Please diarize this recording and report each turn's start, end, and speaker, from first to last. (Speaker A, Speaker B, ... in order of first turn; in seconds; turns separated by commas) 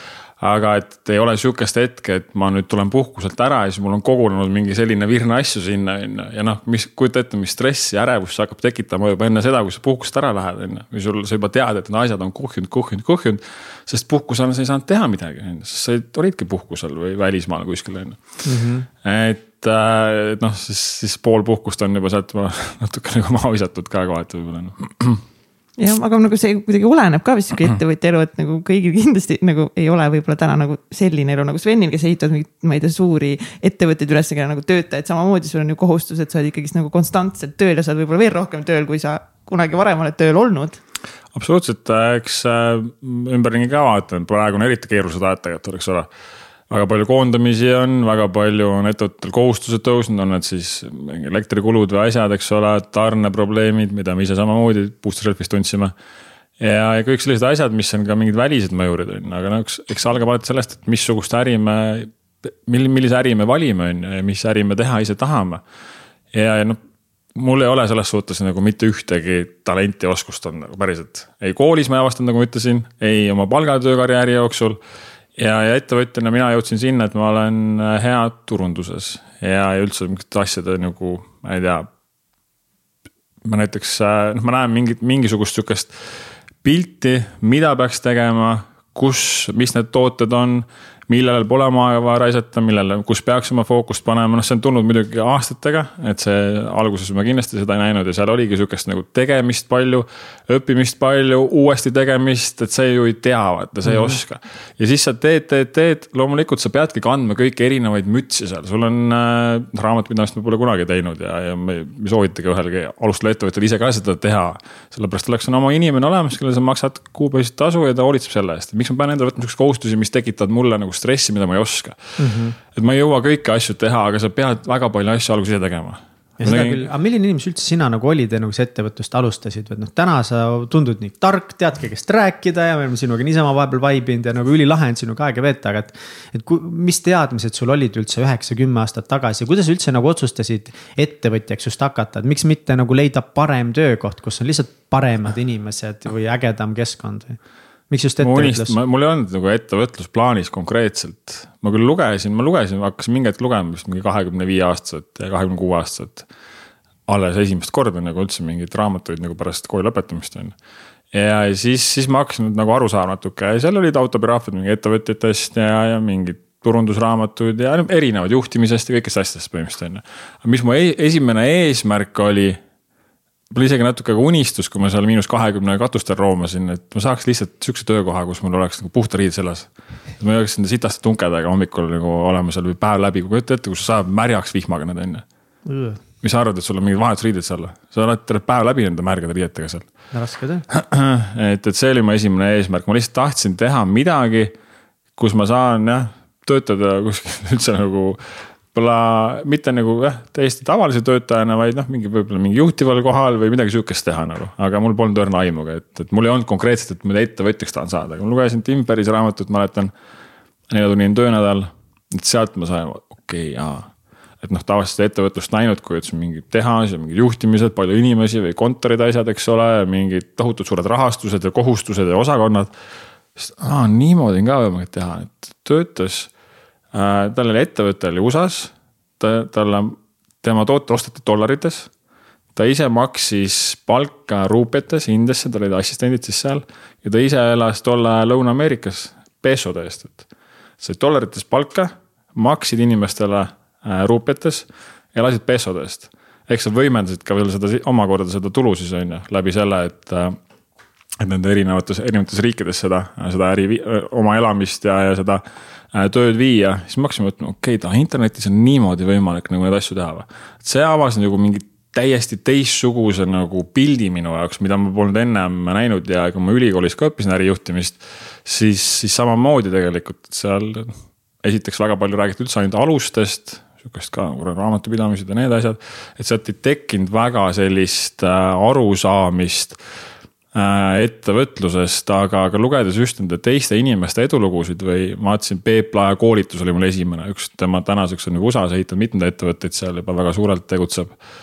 Speaker A: 0.4-18.2, Speaker B: 18.4-18.9, Speaker A: 19.0-25.2, Speaker C: 25.8-40.8, Speaker A: 41.3-46.1, Speaker A: 46.7-55.9, Speaker A: 56.6-65.6, Speaker A: 66.3-66.8, Speaker A: 67.3-74.8, Speaker A: 75.4-81.9, Speaker A: 83.4-85.9, Speaker A: 86.6-122.0, Speaker B: 122.2-122.5, Speaker A: 122.6-126.8, Speaker B: 126.4-147.4, Speaker B: 147.9-148.7, Speaker A: 148.2-156.3, Speaker A: 157.1-160.5, Speaker A: 161.1-172.6, Speaker A: 173.5-185.2, Speaker B: 185.7-186.0, Speaker A: 186.2-189.8, Speaker B: 190.1-190.6, Speaker A: 190.7-194.5, Speaker A: 195.2-198.2, Speaker A: 198.7-209.9, Speaker A: 210.7-213.9, Speaker A: 214.4-222.7, Speaker A: 223.3-226.3, Speaker A: 226.9-231.9, Speaker A: 232.6-240.3, Speaker A: 240.8-250.4, Speaker A: 251.2-279.8, Speaker A: 280.5-291.1